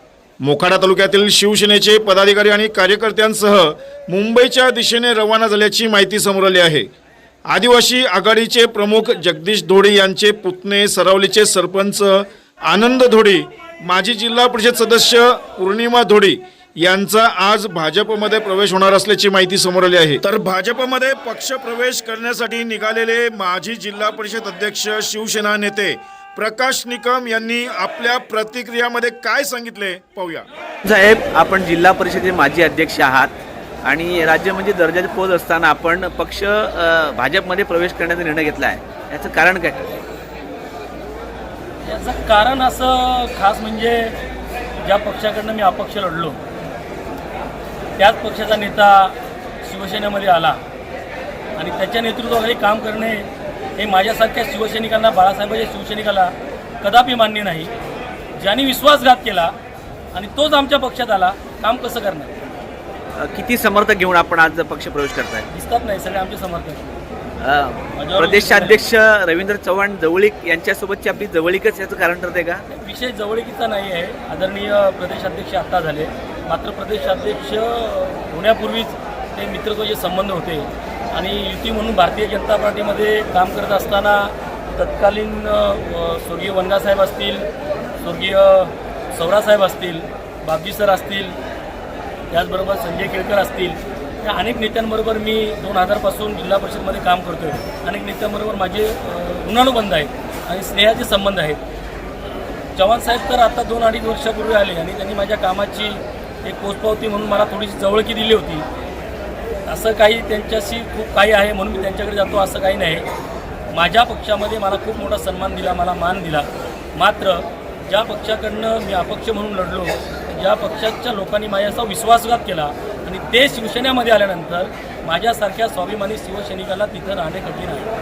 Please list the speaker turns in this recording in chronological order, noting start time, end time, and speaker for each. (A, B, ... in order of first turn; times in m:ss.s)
0:00.4-0:06.9 A
0:07.5-0:30.5 A
0:30.8-0:39.8 B
0:41.8-0:44.2 C
0:44.8-0:46.4 C
0:48.0-0:50.6 C
0:51.6-0:57.7 C
0:58.4-0:59.5 C
1:00.1-1:02.3 C
1:03.2-1:05.5 B
1:05.5-1:06.9 C
1:07.4-1:12.6 B
1:08.0-1:08.8 C
1:12.7-1:27.4 C
1:28.0-1:31.4 C
1:32.3-1:41.6 C
1:42.8-1:48.6 C
1:49.7-1:53.1 C
1:53.7-2:07.8 C